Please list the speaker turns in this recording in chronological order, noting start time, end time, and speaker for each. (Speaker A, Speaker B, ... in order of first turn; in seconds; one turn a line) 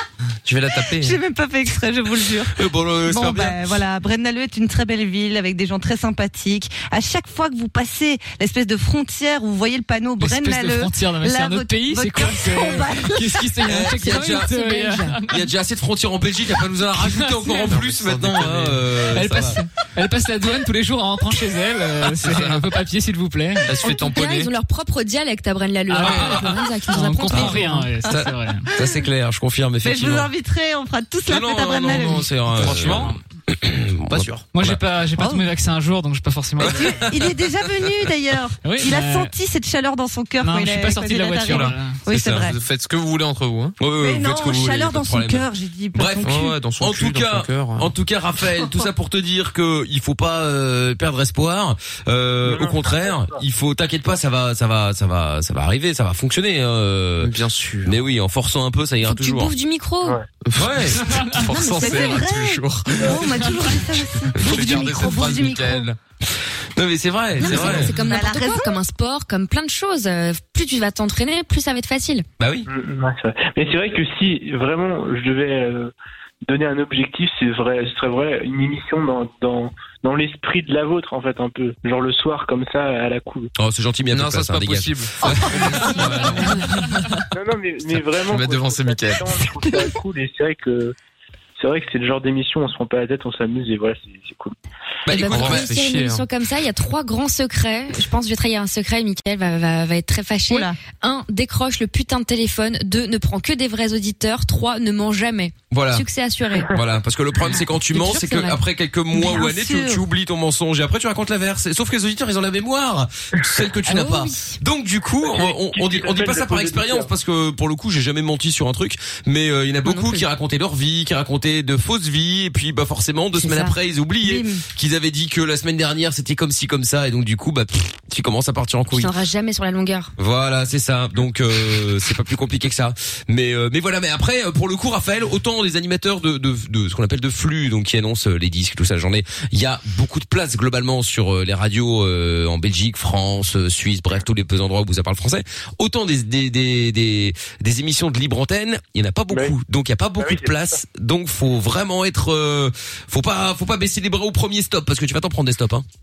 Speaker A: 0.4-1.2
Speaker B: 0.8-13.6
Speaker C: 2.5-3.8
Speaker D: 10.2-15.4
Speaker C: 13.7-14.5
Speaker E: 14.1-15.2
Speaker C: 15.3-19.6
Speaker D: 17.0-17.7
Speaker A: 17.7-18.8
Speaker D: 19.1-23.7
Speaker A: 22.2-22.6
Speaker A: 23.7-24.5
Speaker E: 23.8-27.9
Speaker D: 25.9-28.7
Speaker C: 26.1-26.4
Speaker C: 28.1-30.3
Speaker B: 29.8-32.3
Speaker C: 31.2-34.8
Speaker A: 32.6-33.1
Speaker A: 34.1-34.5
Speaker D: 34.5-37.0
Speaker B: 35.2-35.5
Speaker C: 36.6-37.1
Speaker B: 36.7-42.5
Speaker D: 38.6-39.3
Speaker D: 40.4-42.0
Speaker A: 41.5-43.8
Speaker C: 42.1-42.4
Speaker C: 43.8-57.3
Speaker B: 44.0-46.6
Speaker A: 46.2-47.9
Speaker F: 52.4-53.4
Speaker A: 57.2-58.0
Speaker C: 57.8-59.5
Speaker E: 59.0-60.2
Speaker A: 60.4-63.2
Speaker C: 60.5-61.0
Speaker D: 61.0-61.4
Speaker B: 61.5-65.9
Speaker E: 61.5-62.2
Speaker D: 63.4-63.7
Speaker A: 64.3-66.0
Speaker C: 66.7-67.9
Speaker E: 67.4-72.2
Speaker B: 67.4-68.8
Speaker A: 67.5-67.9
Speaker C: 72.4-72.7
Speaker F: 72.7-75.9
Speaker F: 76.5-83.5
Speaker C: 83.6-86.0
Speaker A: 84.1-86.5
Speaker B: 85.3-86.6
Speaker F: 87.3-90.9
Speaker A: 88.2-89.3
Speaker B: 89.7-89.9
Speaker F: 91.6-94.5
Speaker C: 95.0-95.7
Speaker E: 95.1-106.7
Speaker A: 95.3-96.2
Speaker B: 100.5-100.8
Speaker C: 105.7-106.0
Speaker C: 106.7-129.1
Speaker E: 107.9-108.6
Speaker B: 109.1-110.0
Speaker E: 113.8-114.6
Speaker F: 115.2-117.1
Speaker E: 119.8-120.2
Speaker E: 123.3-123.7
Speaker B: 124.2-124.6
Speaker E: 128.9-130.1
Speaker C: 130.2-155.8
Speaker F: 150.2-150.8